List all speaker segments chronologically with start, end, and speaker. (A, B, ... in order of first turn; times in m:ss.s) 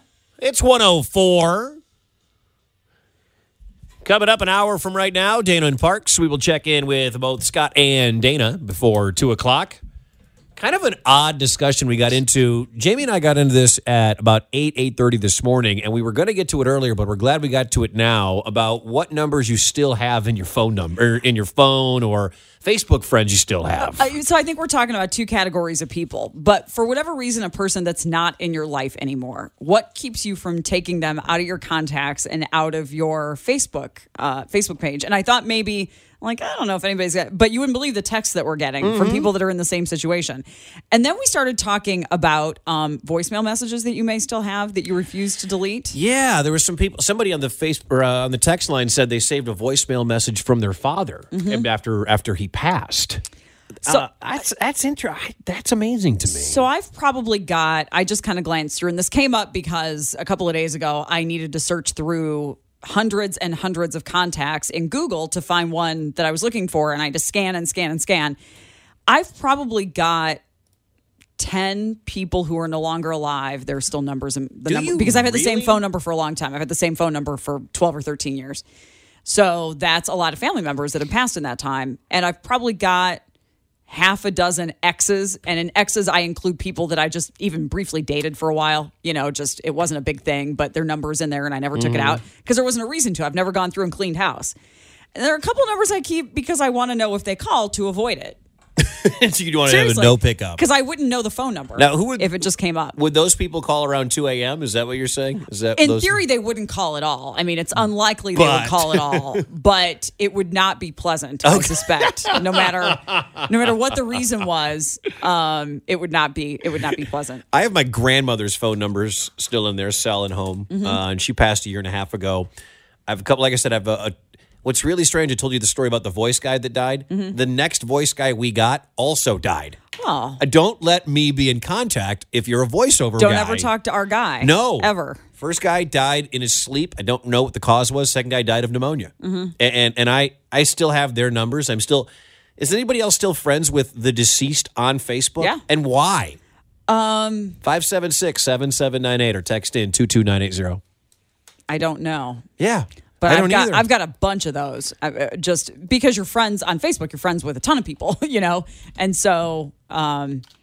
0:00.4-0:01.8 A
0:04.0-0:09.8 A
0:10.6-0:24.1 A
0:23.8-0:46.0 B
0:38.8-0:39.3 A
0:45.9-0:53.2 A
0:51.3-0:51.6 B
0:53.8-0:56.6 A
0:56.3-1:08.4 B
1:09.1-1:10.4 B
1:11.4-1:18.6 B
1:14.7-1:15.8 A
1:19.2-1:23.2 B
1:23.9-1:34.5 B
1:31.7-1:32.2 A
1:35.1-1:38.4 B
1:38.8-1:40.6 A
1:39.6-1:43.0 B
1:41.8-1:42.3 A
1:42.9-1:46.2 A
1:45.8-1:57.4 B
1:48.3-1:49.4 A
1:51.4-1:53.7 A
1:57.5-2:02.5 A
2:00.7-2:01.0 B
2:03.1-2:09.8 A
2:07.1-2:07.4 B
2:10.0-2:10.4 B
2:10.4-2:13.7 A
2:13.2-2:15.2 B
2:14.4-2:26.4 A
2:19.2-2:19.5 B
2:26.9-2:27.6 B
2:27.6-2:30.8 A
2:31.7-2:32.5 B
2:32.6-2:33.8 A
2:33.2-2:40.4 B